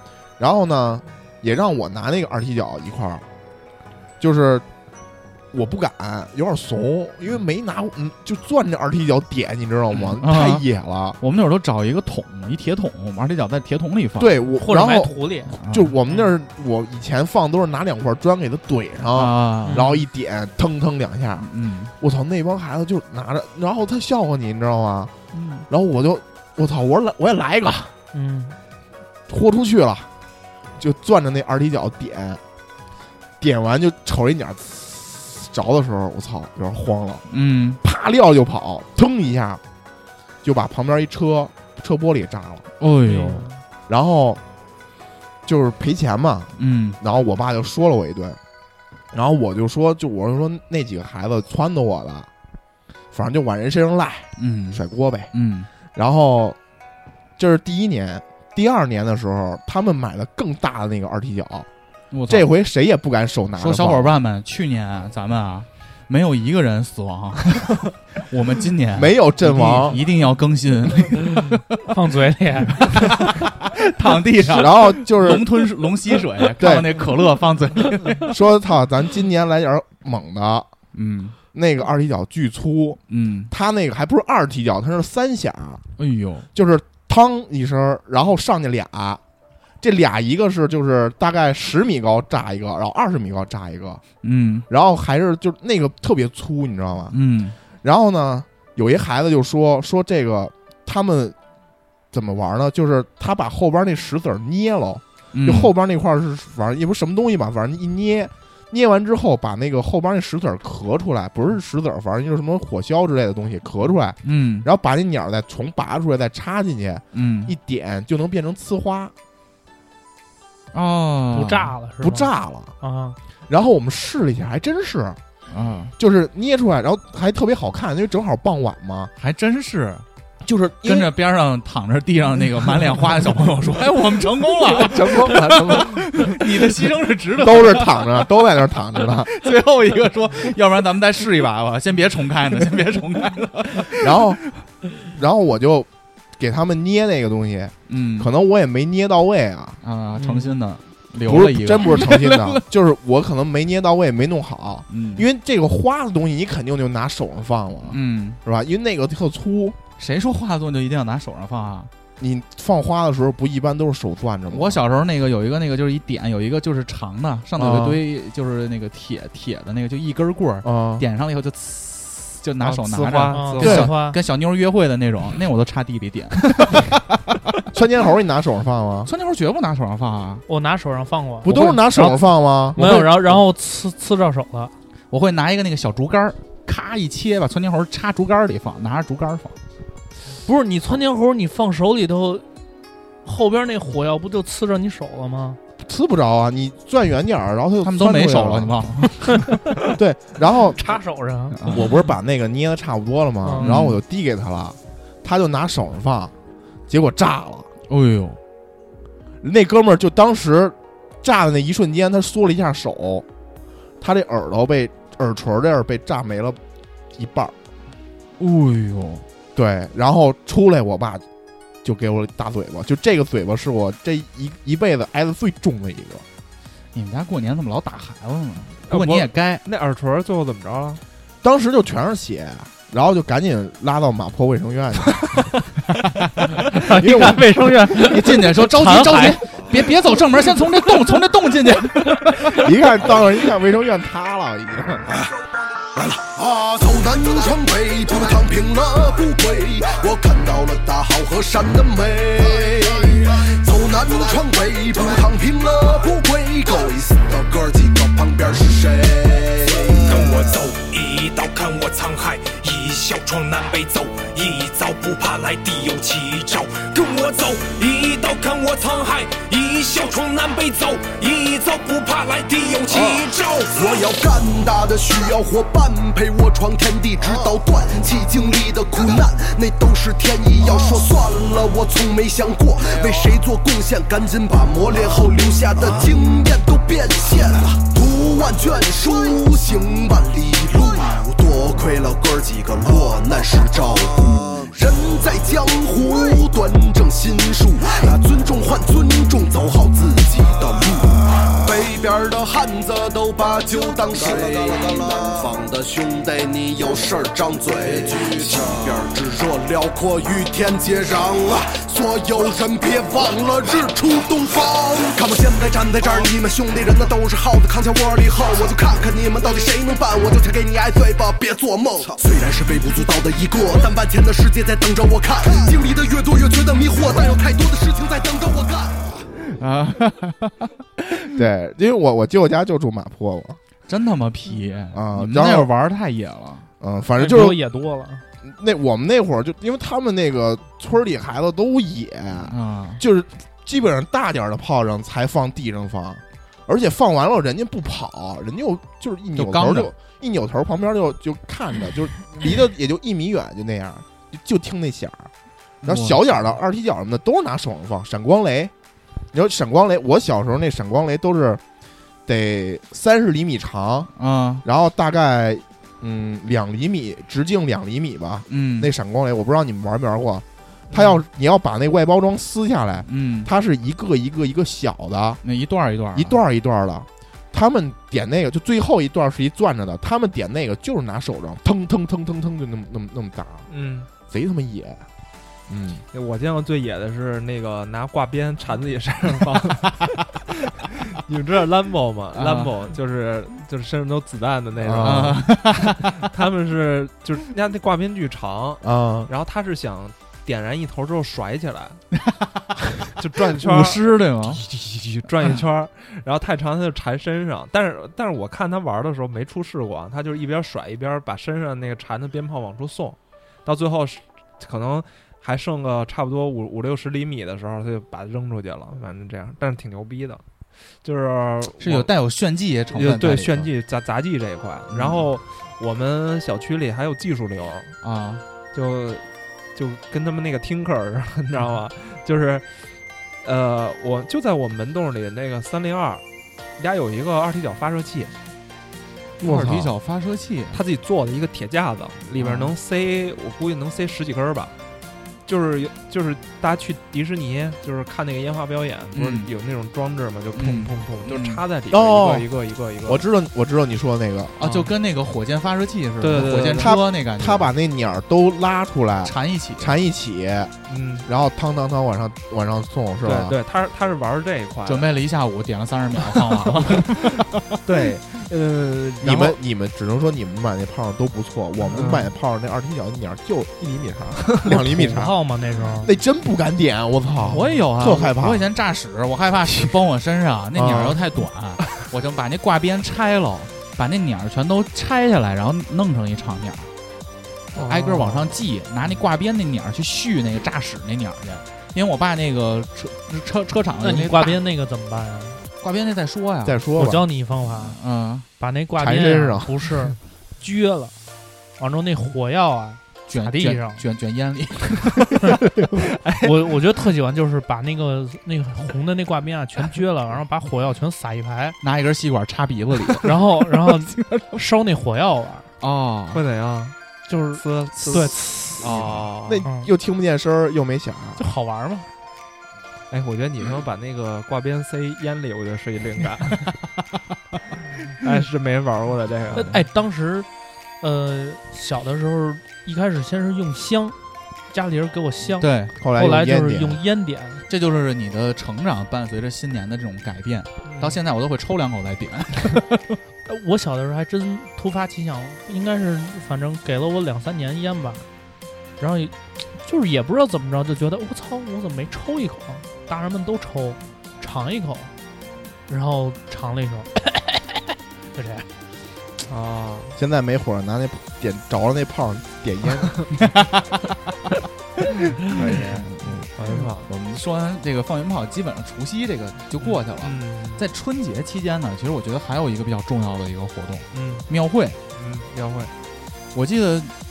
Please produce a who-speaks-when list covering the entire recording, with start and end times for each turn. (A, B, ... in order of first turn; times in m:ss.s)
0:00.4-0:03.2 A
0:04.2-0:04.6 A
0:05.5-0:11.2 A
0:09.9-0:10.6 B
0:11.2-0:14.4 B
0:14.2-0:25.1 A
0:14.6-0:15.6 C
0:15.6-0:15.9 B
0:19.1-0:19.8 B
0:19.7-0:20.0 C
0:21.4-0:21.9 B
0:25.3-0:25.6 C
0:25.7-0:27.9 A
0:28.1-0:28.6 C
0:29.3-0:30.1 A
0:30.8-0:32.4 A
0:33.4-0:37.2 A
0:37.3-0:37.8 B
0:37.8-0:39.6 A
0:40.4-0:42.6 A
0:42.8-0:43.5 B
0:43.0-0:43.6 C
0:43.9-0:44.4 A
0:45.4-0:48.4 A
0:46.6-0:47.0 B
0:49.1-0:52.3 A
0:53.1-0:55.3 A
0:54.4-0:55.7 B
0:55.9-0:56.6 A
0:57.4-1:01.7 A
1:02.1-1:02.5 B
1:02.3-1:04.1 A
1:03.6-1:11.6 B
1:08.9-1:10.0 A
1:11.9-1:13.2 C
1:12.8-1:18.3 B
1:14.4-1:15.4 A
1:16.6-1:17.0 A
1:18.2-1:20.7 A
1:20.9-1:21.4 B
1:21.5-1:25.8 A
1:23.1-1:23.5 B
1:26.0-1:26.5 B
1:26.5-1:29.2 A
1:29.8-1:34.0 A
1:34.2-1:34.6 B
1:34.7-1:37.2 A
1:37.1-1:37.6 B
1:37.8-1:41.4 A
1:42.1-1:59.1 A
1:45.3-1:45.7 B
1:54.2-1:54.7 B
1:57.1-1:57.6 B
2:00.7-2:01.7 B
2:01.3-2:03.2 C
2:02.0-2:02.7 A
2:03.5-2:05.2 A
2:05.5-2:05.9 B
2:06.0-2:09.1 A
2:09.2-2:10.0 B
2:10.4-2:11.1 A
2:10.8-2:18.4 B
2:14.7-2:16.4 D
2:17.4-2:19.3 A
2:19.0-2:24.6 B
2:23.9-2:24.4 A
2:25.0-2:29.8 A
2:27.9-2:28.3 B
2:29.8-2:32.6 B
2:30.2-2:30.5 C
2:31.2-2:39.8 A
2:34.9-2:35.3 B
2:37.8-2:38.4 B
2:40.0-2:41.9 B
2:42.2-2:44.8 A
2:44.5-2:57.0 B
2:47.6-2:48.0 A
2:50.6-2:51.0 A
2:52.6-2:53.8 D
2:53.3-2:54.2 C
2:53.6-2:53.9 A
2:57.7-2:59.1 A
2:59.0-3:00.4 B
3:00.5-3:02.2 C
3:01.4-3:03.1 A
3:01.5-3:01.8 B
3:02.7-3:04.7 C
3:02.8-3:03.1 B
3:05.1-3:09.6 B
3:10.4-3:12.5 C
3:13.2-3:15.6 C
3:15.8-3:18.9 A
3:17.8-3:19.6 B
3:19.8-3:20.8 A
3:20.8-3:21.6 C
3:21.6-3:21.9 B
3:21.6-3:26.3 A
3:23.4-3:23.7 C
3:23.6-3:24.0 B
3:26.9-3:27.7 A
3:27.9-3:28.4 B
3:29.4-3:33.2 A
3:34.0-3:36.6 A
3:37.1-3:37.5 A
3:38.4-3:39.2 B
3:39.5-3:41.2 A
3:41.8-3:46.2 A
3:46.9-3:49.6 B
3:48.9-3:51.0 D
3:51.4-3:55.4 A
3:56.7-3:59.6 C
3:56.8-3:57.9 A
3:57.9-4:02.7 B
4:02.5-4:05.1 A
4:05.9-4:20.2 E
4:20.0-4:33.9 F
4:32.9-5:29.2 E
5:29.4-5:31.2 B
5:31.2-5:33.6 A
5:33.9-5:36.7 B
5:34.9-5:35.7 A
5:36.8-5:37.6 A
5:37.2-5:38.2 C
5:38.4-5:55.3 A
5:42.4-5:43.0 B
5:49.3-5:49.9 B
5:55.8-5:56.6 B
5:55.8-5:58.7 A
5:59.3-6:01.6 A
6:02.2-6:15.4 A
6:04.2-6:04.6 B
6:08.5-6:08.9 B
6:10.9-6:11.2 D
6:13.0-6:13.5 B
6:15.4-6:16.4 B
6:16.1-6:23.7 A
6:23.7-6:24.1 D
6:24.3-6:25.0 A
6:25.7-6:26.0 A
6:26.1-6:42.0 D
6:32.3-6:32.7 B
6:34.8-6:35.4 A
6:35.0-6:36.2 B
6:38.8-6:39.3 A
6:42.1-6:42.9 B
6:43.0-7:00.4 D
6:43.6-6:44.6 B
7:01.0-7:02.1 D
7:01.8-7:03.7 B
7:02.9-7:07.9 D
7:04.9-7:05.3 B
7:08.0-7:08.4 B
7:08.7-7:12.7 D
7:13.4-7:16.2 D
7:16.8-7:18.3 D
7:19.4-7:20.8 B
7:19.4-7:19.9 A
7:20.7-7:24.7 D
7:22.4-7:22.7 B
7:25.4-7:33.2 D
7:29.1-7:29.5 B
7:30.5-7:31.6 B
7:31.9-7:32.5 A
7:33.0-7:34.7 A
7:34.6-7:37.7 B
7:34.6-7:34.9 D
7:36.2-7:36.9 D
7:36.8-7:40.7 A
7:39.2-7:39.9 B
7:40.9-7:41.3 D
7:41.2-7:43.6 A
7:43.2-7:45.2 D
7:44.8-7:47.7 B
7:46.3-7:49.6 D
7:49.2-7:55.4 A
7:51.8-7:52.3 D
7:54.7-7:56.1 C
7:56.0-7:58.7 A
7:57.5-8:06.9 B
8:00.8-8:01.2 A
8:07.7-8:08.5 D
8:07.8-8:14.6 B
8:14.0-8:15.6 C
8:15.8-8:16.8 B
8:16.6-8:17.2 A
8:17.0-8:18.0 C
8:17.6-8:18.5 B
8:18.6-8:21.1 C
8:19.0-8:20.0 A
8:21.8-8:24.0 C
8:23.3-8:25.5 B
8:26.0-8:26.5 D
8:26.4-8:31.8 C
8:31.8-8:34.6 B
8:33.2-8:35.7 C
8:35.8-8:36.4 B
8:36.3-8:37.0 D
8:37.3-8:38.4 C
8:37.5-8:39.6 D
8:38.8-8:41.4 A
8:38.8-8:39.3 B
8:41.4-8:42.1 C
8:43.1-8:46.8 D
8:48.2-8:49.8 D
8:49.5-8:50.5 C
8:51.0-8:54.2 C
8:54.7-8:57.6 C
8:55.6-8:55.9 B
8:56.0-8:57.0 A
8:57.7-9:03.2 B
9:00.8-9:01.2 D
9:03.4-9:08.3 C
9:09.0-9:15.1 C
9:15.9-9:17.8 C
9:18.3-9:18.7 C
9:19.4-9:20.2 D
9:20.2-9:23.4 A
9:23.6-9:23.9 B
9:25.4-9:35.0 B
9:25.6-9:26.4 A
9:26.6-9:27.1 D
9:29.8-9:30.8 D
9:34.1-9:34.5 D
9:35.1-9:35.9 D
9:36.5-9:37.1 B